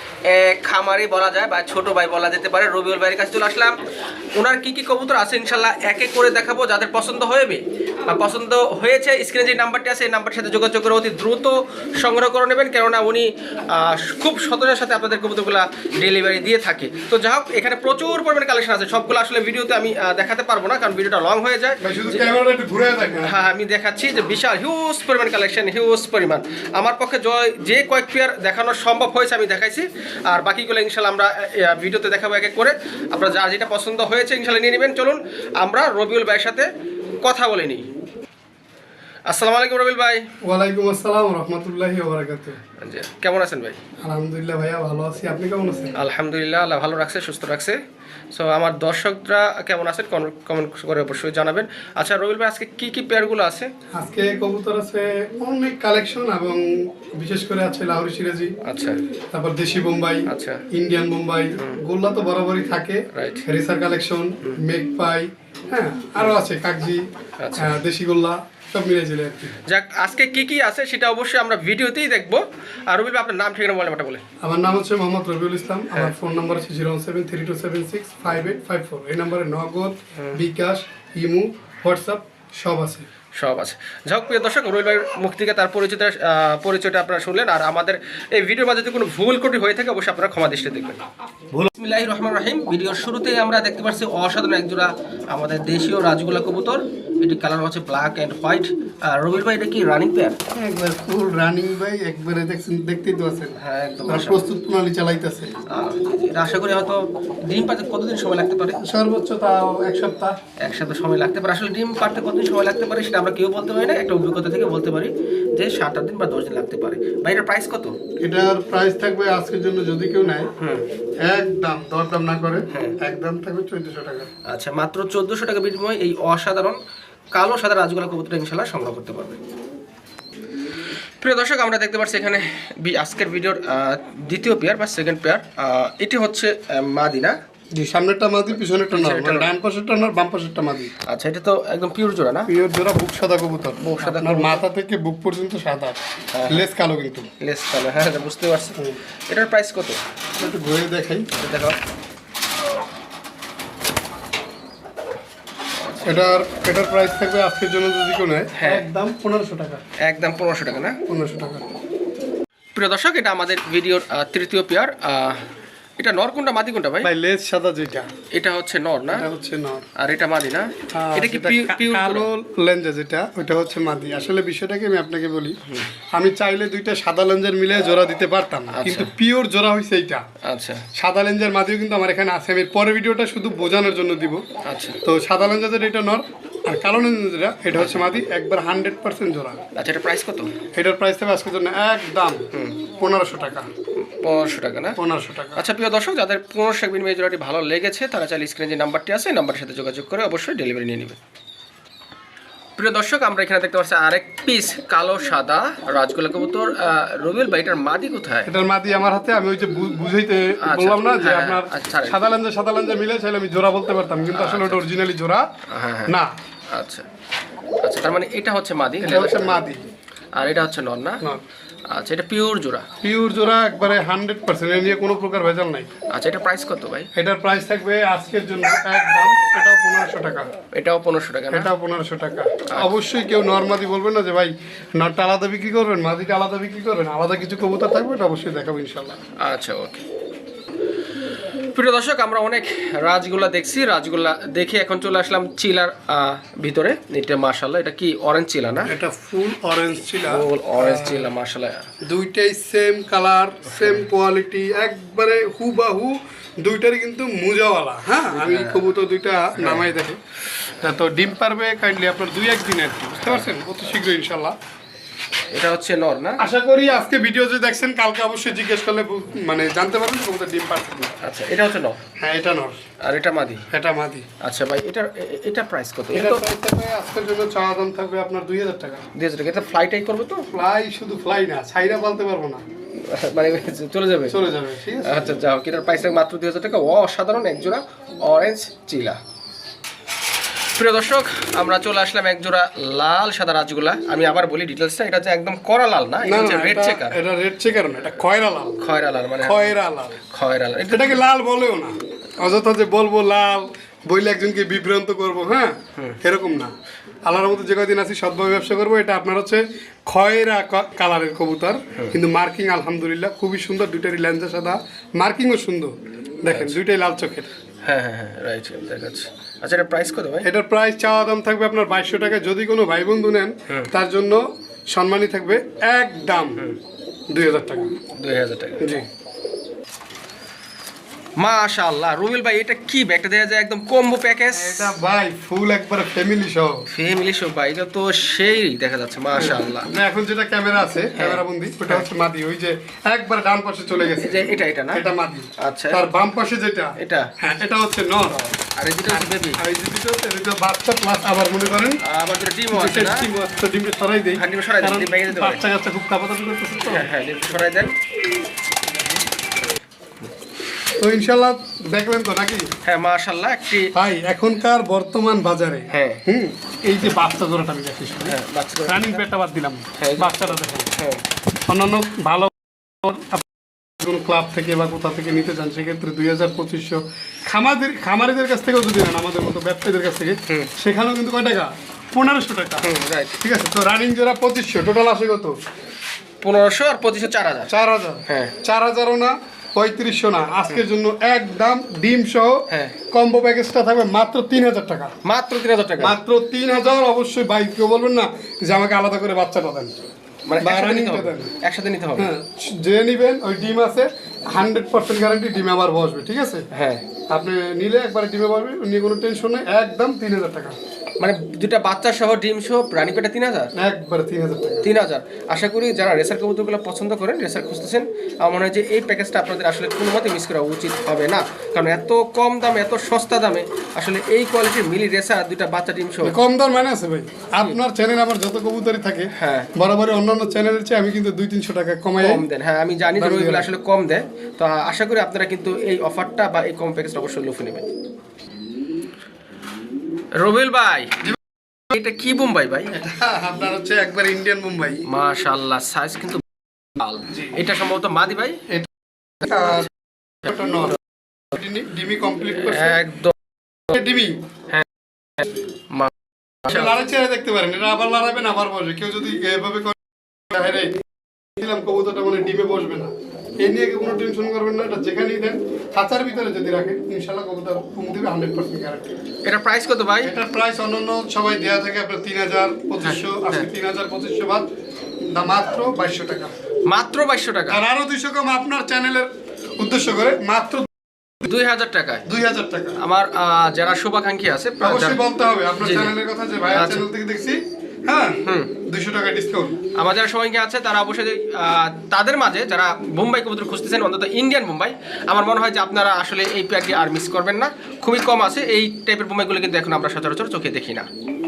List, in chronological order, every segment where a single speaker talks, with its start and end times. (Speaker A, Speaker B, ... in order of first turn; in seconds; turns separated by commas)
Speaker A: 0.2-3.8, Speaker A: 4.3-22.3, Speaker B: 21.8-23.4, Speaker A: 23.2-36.7, Speaker A: 37.2-37.9, Speaker A: 39.3-40.2, Speaker B: 40.4-42.6, Speaker A: 42.8-43.8, Speaker B: 44.0-46.0, Speaker A: 46.0-47.8, Speaker A: 48.3-53.7, Speaker B: 53.9-58.5, Speaker A: 58.6-59.0, Speaker B: 59.3-67.0, Speaker A: 60.3-60.6, Speaker A: 63.1-63.4, Speaker A: 67.4-67.8, Speaker B: 67.6-69.5, Speaker A: 69.7-74.2, Speaker B: 74.4-83.1, Speaker A: 83.3-91.0, Speaker A: 91.7-100.3, Speaker B: 100.5-105.5, Speaker A: 103.6-104.4, Speaker A: 105.7-108.8, Speaker B: 108.8-110.4, Speaker A: 110.6-117.9, Speaker B: 118.2-120.5, Speaker B: 121.2-124.3, Speaker A: 122.7-123.0, Speaker A: 124.5-126.8, Speaker A: 127.3-129.4, Speaker A: 131.2-137.4, Speaker B: 137.7-140.9, Speaker A: 138.9-139.5, Speaker A: 141.1-142.5, Speaker B: 142.5-146.0, Speaker A: 143.8-144.6, Speaker A: 146.3-146.6, Speaker B: 146.5-147.3, Speaker A: 147.4-150.0, Speaker B: 150.4-151.3, Speaker A: 151.4-151.8, Speaker B: 156.0-159.8, Speaker A: 158.5-158.8, Speaker A: 160.0-161.0, Speaker B: 161.1-161.7, Speaker A: 162.7-165.4, Speaker A: 166.0-167.1, Speaker B: 167.0-168.1, Speaker A: 168.3-169.2, Speaker B: 169.1-169.8, Speaker A: 169.9-172.3, Speaker B: 170.9-175.6, Speaker B: 176.1-180.2, Speaker A: 178.7-179.1, Speaker A: 180.4-180.8, Speaker B: 180.9-184.4, Speaker A: 184.6-185.0, Speaker B: 185.0-189.6, Speaker A: 187.7-188.0, Speaker A: 189.8-190.5, Speaker B: 190.7-192.5, Speaker A: 192.5-192.8, Speaker B: 193.0-193.7, Speaker A: 194.0-195.0, Speaker B: 195.0-195.6, Speaker A: 195.6-201.2, Speaker A: 202.8-208.5, Speaker B: 208.4-215.5, Speaker A: 210.6-212.2, Speaker A: 214.3-214.8, Speaker A: 215.7-216.1, Speaker A: 216.7-217.1, Speaker A: 217.8-219.6, Speaker B: 219.0-219.8, Speaker A: 220.3-221.2, Speaker A: 221.9-222.8, Speaker B: 223.0-225.9, Speaker A: 226.1-227.1, Speaker B: 227.1-230.5, Speaker A: 230.7-231.7, Speaker B: 231.5-239.2, Speaker A: 239.4-240.0, Speaker A: 241.7-248.9, Speaker B: 248.9-251.3, Speaker A: 250.3-251.9, Speaker B: 252.0-260.2, Speaker A: 258.3-258.8, Speaker A: 259.6-259.9, Speaker B: 260.8-264.6, Speaker A: 263.2-263.5, Speaker A: 265.5-266.4, Speaker B: 266.4-271.1, Speaker A: 271.2-272.0, Speaker B: 272.2-272.8, Speaker A: 273.0-273.6, Speaker B: 273.7-274.2, Speaker A: 274.4-276.4, Speaker B: 276.1-279.0, Speaker A: 279.1-280.4, Speaker B: 280.5-282.6, Speaker A: 283.0-284.4, Speaker B: 284.3-285.3, Speaker A: 285.0-289.2, Speaker A: 290.7-297.2, Speaker B: 296.2-298.8, Speaker A: 298.8-301.2, Speaker B: 299.4-300.2, Speaker B: 300.9-306.7, Speaker B: 307.2-317.5, Speaker A: 316.5-316.8, Speaker A: 317.8-320.5, Speaker B: 320.4-326.6, Speaker B: 327.3-327.9, Speaker A: 328.1-329.0, Speaker B: 328.8-329.1, Speaker A: 331.4-334.9, Speaker B: 334.5-336.8, Speaker A: 336.9-339.9, Speaker B: 339.4-348.4, Speaker A: 341.1-342.0, Speaker A: 344.2-345.0, Speaker A: 345.6-346.0, Speaker A: 347.0-347.3, Speaker A: 348.3-349.6, Speaker B: 349.1-352.0, Speaker A: 352.0-353.3, Speaker B: 352.7-357.1, Speaker A: 354.4-355.7, Speaker A: 356.9-357.9, Speaker B: 361.0-362.7, Speaker A: 362.8-363.9, Speaker B: 363.9-370.9, Speaker A: 365.9-366.2, Speaker A: 368.2-369.2, Speaker A: 370.0-371.2, Speaker B: 371.7-382.9, Speaker A: 382.8-383.4, Speaker B: 383.4-385.6, Speaker A: 386.4-387.7, Speaker B: 387.7-395.1, Speaker A: 388.3-388.5, Speaker A: 392.7-392.9, Speaker A: 395.2-396.1, Speaker B: 396.0-400.0, Speaker A: 400.4-402.3, Speaker B: 400.6-401.5, Speaker B: 402.1-406.6, Speaker A: 406.7-407.0, Speaker B: 407.3-410.8, Speaker A: 411.2-413.7, Speaker B: 413.7-414.9, Speaker A: 414.8-426.3, Speaker B: 426.2-432.4, Speaker A: 429.3-429.7, Speaker A: 432.2-437.9, Speaker B: 433.1-433.7, Speaker A: 440.4-441.2, Speaker A: 441.9-442.9, Speaker B: 442.9-445.0, Speaker A: 445.1-446.4, Speaker A: 446.9-448.6, Speaker B: 447.3-447.6, Speaker B: 448.7-449.9, Speaker B: 450.4-451.0, Speaker B: 451.5-453.0, Speaker A: 452.6-453.3, Speaker B: 453.9-454.4, Speaker A: 455.4-456.1, Speaker A: 456.6-456.9, Speaker B: 456.6-461.0, Speaker B: 461.6-469.1, Speaker A: 469.4-470.3, Speaker B: 470.2-474.7, Speaker A: 473.0-473.7, Speaker B: 475.3-476.5, Speaker A: 476.9-477.8, Speaker B: 477.7-480.9, Speaker A: 481.4-482.2, Speaker B: 482.2-483.0, Speaker A: 483.0-485.2, Speaker B: 484.8-489.8, Speaker A: 485.8-486.1, Speaker A: 486.7-487.0, Speaker A: 488.4-488.7, Speaker A: 490.0-501.1